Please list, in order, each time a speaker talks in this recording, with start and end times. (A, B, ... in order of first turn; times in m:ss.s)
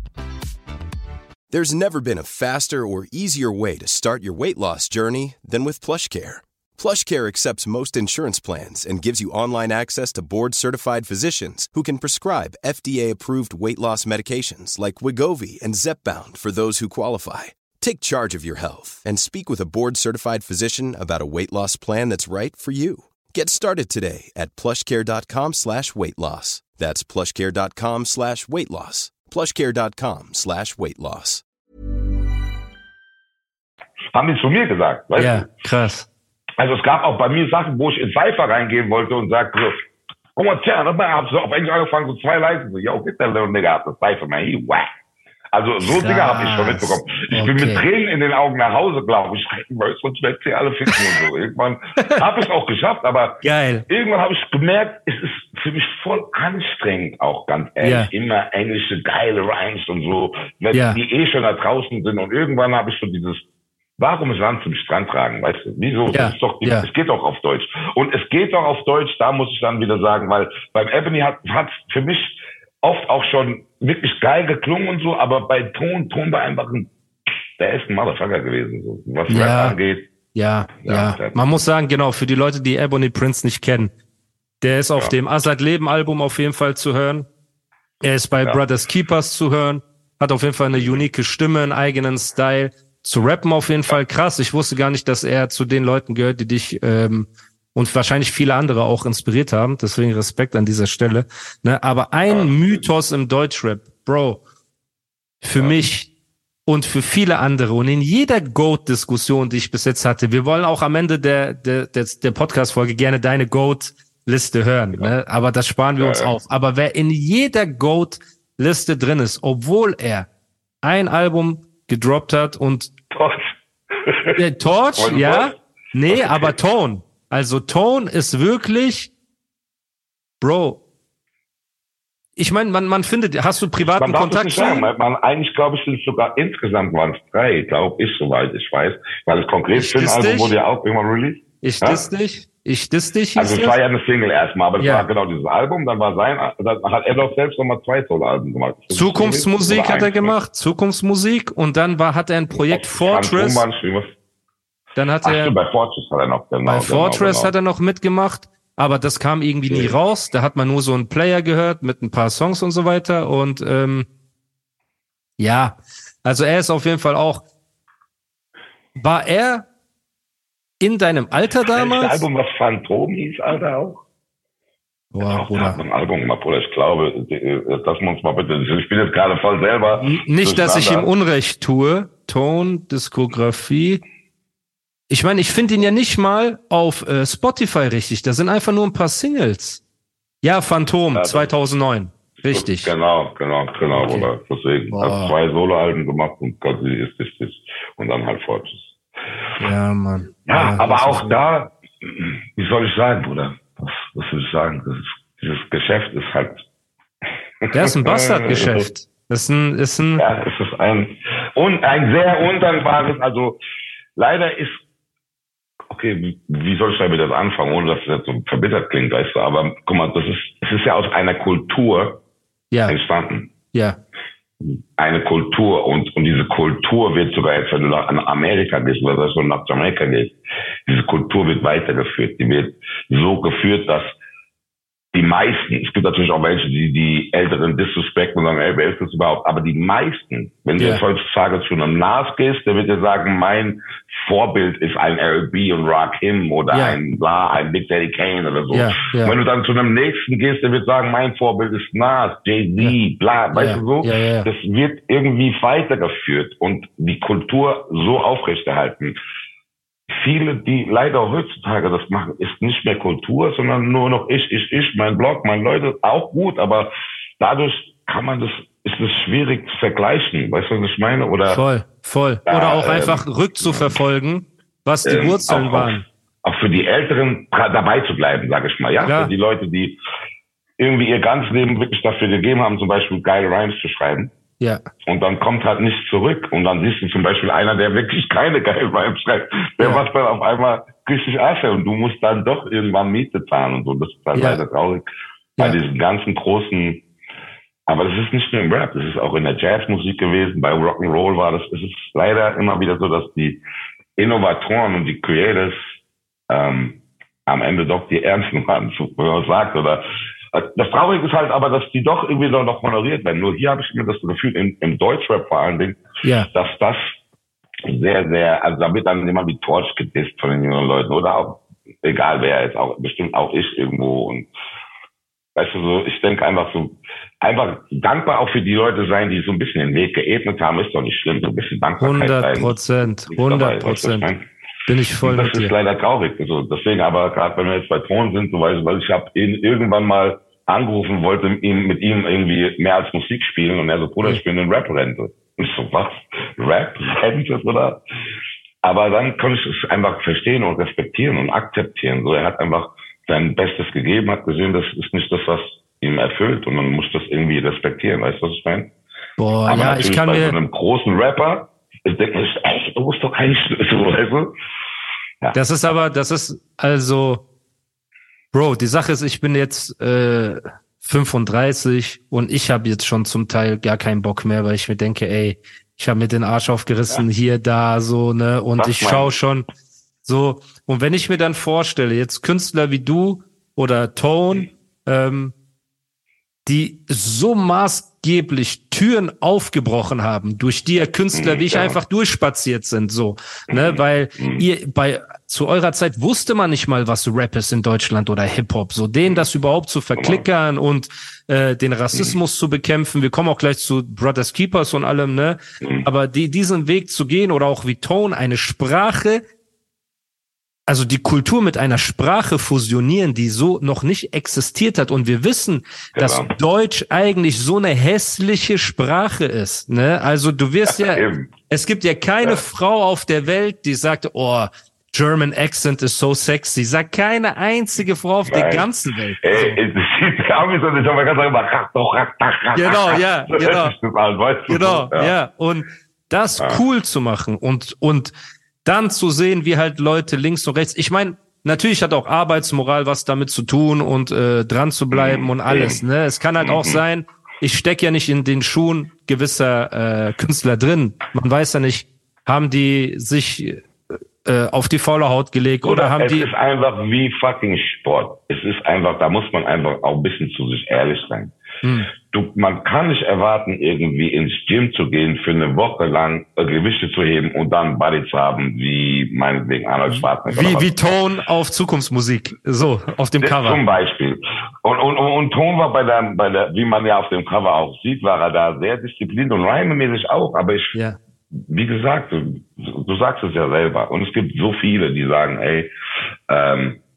0:01.5-0:31.4 A
0:34.1-0:35.5 B
0:35.2-0:36.1 C
0:36.6-0:39.8 B
0:40.4-0:44.9 B
0:45.5-1:03.4 B
0:45.9-0:47.8 C
0:53.4-0:53.9 C
0:57.8-0:58.1 C
1:00.7-1:01.0 C
1:04.0-1:16.9 B
1:06.1-1:06.9 C
1:17.6-1:20.1 B
1:19.3-1:19.8 C
1:20.3-1:23.9 C
1:20.8-1:21.4 B
1:24.6-1:27.3 C
1:28.0-1:44.4 C
1:30.7-1:31.1 B
1:42.3-1:42.8 B
1:45.4-1:46.1 C
1:46.7-2:00.3 C
1:56.0-1:56.3 B
2:00.8-2:02.9 C
2:03.1-2:04.4 B
2:04.3-2:09.1 C
2:05.0-2:05.6 B
2:06.1-2:06.6 B
2:10.4-2:10.8 C
2:12.4-2:14.9 C
2:13.8-2:22.0 B
2:19.7-2:20.6 C
2:21.6-2:23.8 C
2:23.4-2:30.4 B
2:24.8-2:25.1 C
2:28.9-2:33.6 C
2:32.5-2:34.2 B
2:35.0-2:35.6 C
2:35.2-2:37.5 B
2:36.6-2:44.1 C
2:39.7-2:40.0 B
2:45.4-2:47.4 C
2:49.0-2:49.7 C
2:50.8-2:52.3 C
2:51.7-2:54.0 B
2:55.1-2:55.8 C
2:55.2-3:01.1 B
3:00.0-3:04.0 C
3:05.1-3:09.8 C
3:10.4-3:12.9 C
3:11.1-3:11.5 B
3:12.5-3:19.0 B
3:13.9-3:14.3 C
3:14.9-3:15.3 C
3:19.6-3:21.4 C
3:20.5-3:26.6 B
3:27.6-3:28.9 B
3:27.7-3:30.2 C
3:30.2-3:33.6 B
3:34.2-3:34.8 B
3:35.9-3:42.2 B
3:42.9-3:43.5 B
3:45.0-3:50.4 B
3:50.9-3:54.1 B
3:55.1-4:19.2 B
4:06.7-4:07.0 C
4:08.7-4:09.4 C
4:13.5-4:14.5 C
4:20.1-4:31.6 B
4:31.5-4:36.1 C
4:32.5-4:34.0 B
4:35.0-4:40.0 B
4:39.0-4:39.3 C
4:40.8-4:44.3 B
4:45.1-4:55.1 B
4:54.4-4:54.6 C
4:55.6-4:57.0 B
4:57.9-5:03.6 B
5:04.2-5:05.8 B
5:06.5-5:17.2 B
5:16.2-5:16.5 C
5:17.8-5:24.5 B
5:25.6-5:32.8 B
5:32.0-5:34.3 C
5:33.3-5:34.5 B
5:34.9-5:35.7 C
5:35.2-5:48.0 B
5:48.8-5:58.9 B
5:59.4-6:00.6 C
5:59.7-6:04.5 B
6:05.5-6:07.4 C
6:08.5-6:19.7 C
6:18.8-6:19.4 B
6:20.3-6:25.5 C
6:26.7-6:49.4 C
6:31.3-6:32.0 B
6:33.7-6:34.6 B
6:40.2-6:40.4 B
6:42.1-6:42.4 B
6:45.8-6:46.1 B
6:50.9-7:09.8 C
6:56.2-6:56.5 B
7:00.9-7:01.5 B
7:08.5-7:08.9 B
7:09.4-7:15.3 B
7:12.8-7:13.9 C
7:14.7-7:18.3 C
7:18.8-7:33.8 C
7:25.1-7:26.0 B
7:26.6-7:27.0 B
7:34.4-7:36.5 C
7:35.8-7:41.6 B
7:41.8-7:42.1 C
7:42.2-7:51.2 B
7:50.1-7:53.8 C
7:53.4-8:01.0 B
8:01.5-8:05.9 B
8:06.5-8:07.0 B